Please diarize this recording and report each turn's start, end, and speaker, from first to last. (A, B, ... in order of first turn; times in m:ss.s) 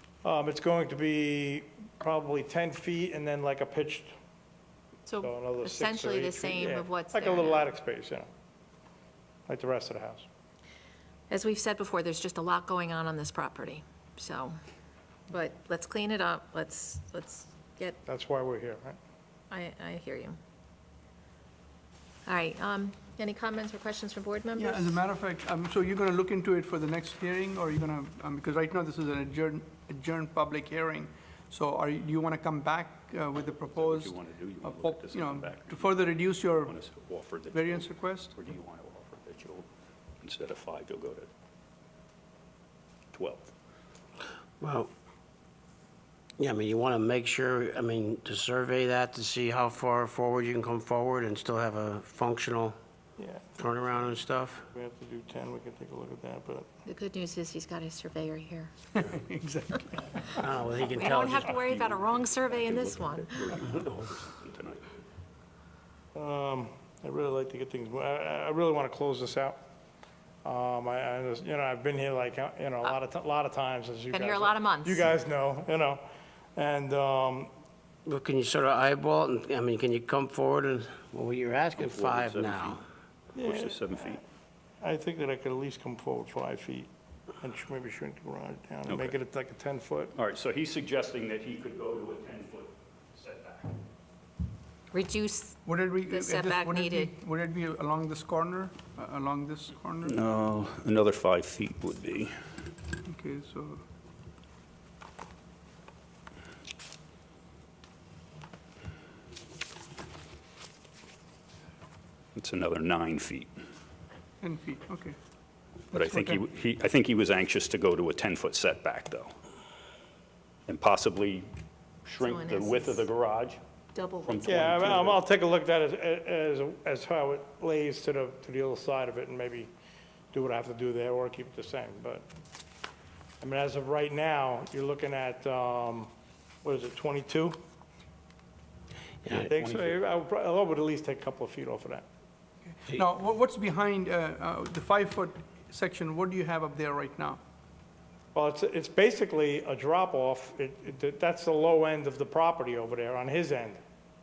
0:00.2-0:04.1 A
0:05.1-0:07.7 B
0:05.2-0:08.3 A
0:09.5-0:10.3 A
0:11.3-0:14.6 B
0:15.3-0:18.0 B
0:18.0-0:19.0 A
0:19.5-0:20.4 B
0:22.3-0:25.0 B
0:24.5-0:36.8 C
0:33.7-0:39.7 D
0:37.5-0:38.3 C
0:40.2-0:41.3 D
0:43.1-0:43.5 D
0:44.6-0:44.9 E
0:46.4-0:52.8 E
0:53.2-0:53.6 A
0:53.6-0:54.7 E
0:54.7-0:56.7 A
0:56.9-0:58.7 B
0:58.9-1:00.3 C
1:00.3-1:01.6 E
1:00.8-1:04.9 D
1:01.0-1:03.4 B
1:06.1-1:09.6 A
1:10.4-1:16.0 A
1:14.1-1:15.1 B
1:16.6-1:17.5 A
1:18.1-1:22.8 E
1:21.8-1:22.8 D
1:23.4-1:24.2 A
1:23.4-1:24.2 D
1:24.8-1:26.9 A
1:27.4-1:30.1 A
1:28.9-1:29.2 D
1:30.1-1:33.8 D
1:34.9-1:37.1 B
1:35.6-1:40.2 C
1:40.0-1:42.3 D
1:43.0-1:43.8 C
1:52.4-1:53.5 D
1:54.4-1:55.2 C
1:55.9-1:56.4 C
1:55.9-1:59.3 D
2:00.7-2:01.5 D
2:02.0-2:03.6 D
2:02.2-2:03.1 B
2:03.9-2:04.6 B
2:04.2-2:05.2 D
2:04.4-2:09.7 A
2:10.3-2:12.2 A
2:13.4-2:16.1 A
2:16.6-2:17.6 A
2:19.3-2:22.0 A
2:19.3-2:20.0 D
2:22.7-2:27.4 C
2:28.3-2:33.8 A